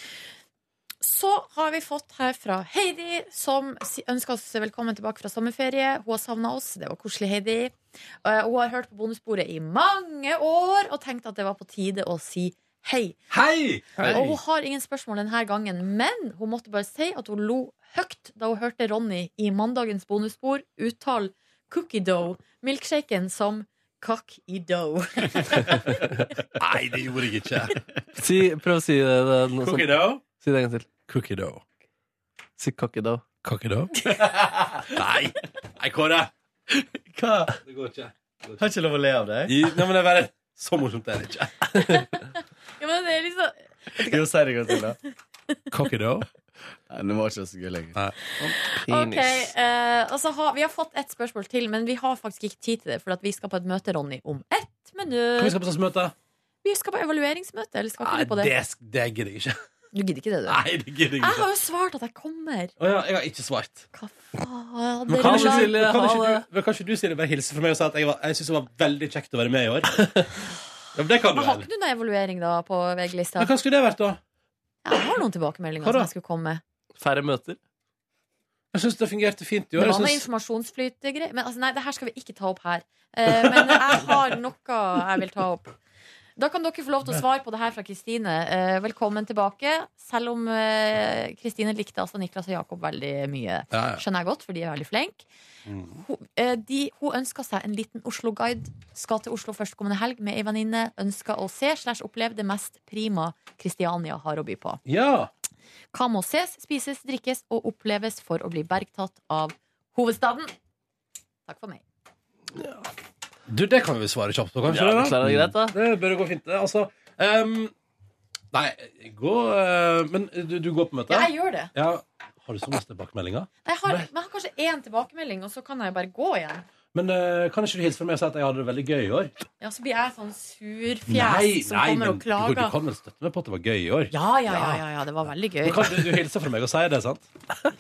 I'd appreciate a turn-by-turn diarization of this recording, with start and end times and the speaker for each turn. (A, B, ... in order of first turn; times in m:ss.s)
0:01.0-0:13.2 A
0:13.3-0:14.4 B
0:14.0-0:26.0 A
0:26.6-0:27.8 B
0:28.2-0:30.9 C
0:29.6-0:30.2 B
0:31.1-0:31.6 B
0:32.6-0:33.2 C
0:33.4-0:36.3 B
0:36.7-0:37.6 D
0:37.6-0:38.6 B
0:38.6-0:39.6 D
0:39.5-0:42.0 B
0:41.8-0:42.2 A
0:42.8-0:44.9 A
0:44.0-0:45.0 D
0:45.7-0:46.3 B
0:46.9-0:48.0 D
0:48.0-0:48.5 B
0:48.5-0:55.6 A
0:48.9-0:49.5 C
0:55.4-0:56.1 B
0:56.6-0:58.5 A
0:58.0-0:59.6 B
0:59.9-1:00.6 A
1:00.5-1:01.5 B
1:01.2-1:02.7 A
1:02.8-1:03.9 B
1:03.9-1:05.7 A
1:05.1-1:10.1 B
1:05.2-1:06.4 C
1:11.0-1:11.7 B
1:11.3-1:13.5 A
1:13.4-1:14.2 B
1:14.8-1:16.6 A
1:15.8-1:16.1 B
1:17.0-1:17.6 C
1:18.7-1:20.2 B
1:19.8-1:25.8 A
1:26.4-1:35.2 A
1:33.7-1:34.0 B
1:35.7-1:36.0 B
1:36.0-1:44.8 A
1:44.9-1:45.3 B
1:45.9-1:50.5 A
1:51.5-1:51.8 A
1:52.6-1:52.8 B
1:53.5-1:57.7 B
1:54.7-1:55.7 C
1:55.2-1:55.5 D
1:58.5-2:04.1 B
2:01.1-2:01.7 A
2:03.6-2:06.6 A
2:06.9-2:09.3 B
2:09.6-2:12.7 A
2:11.1-2:14.8 B
2:14.1-2:16.1 A
2:15.6-2:17.3 B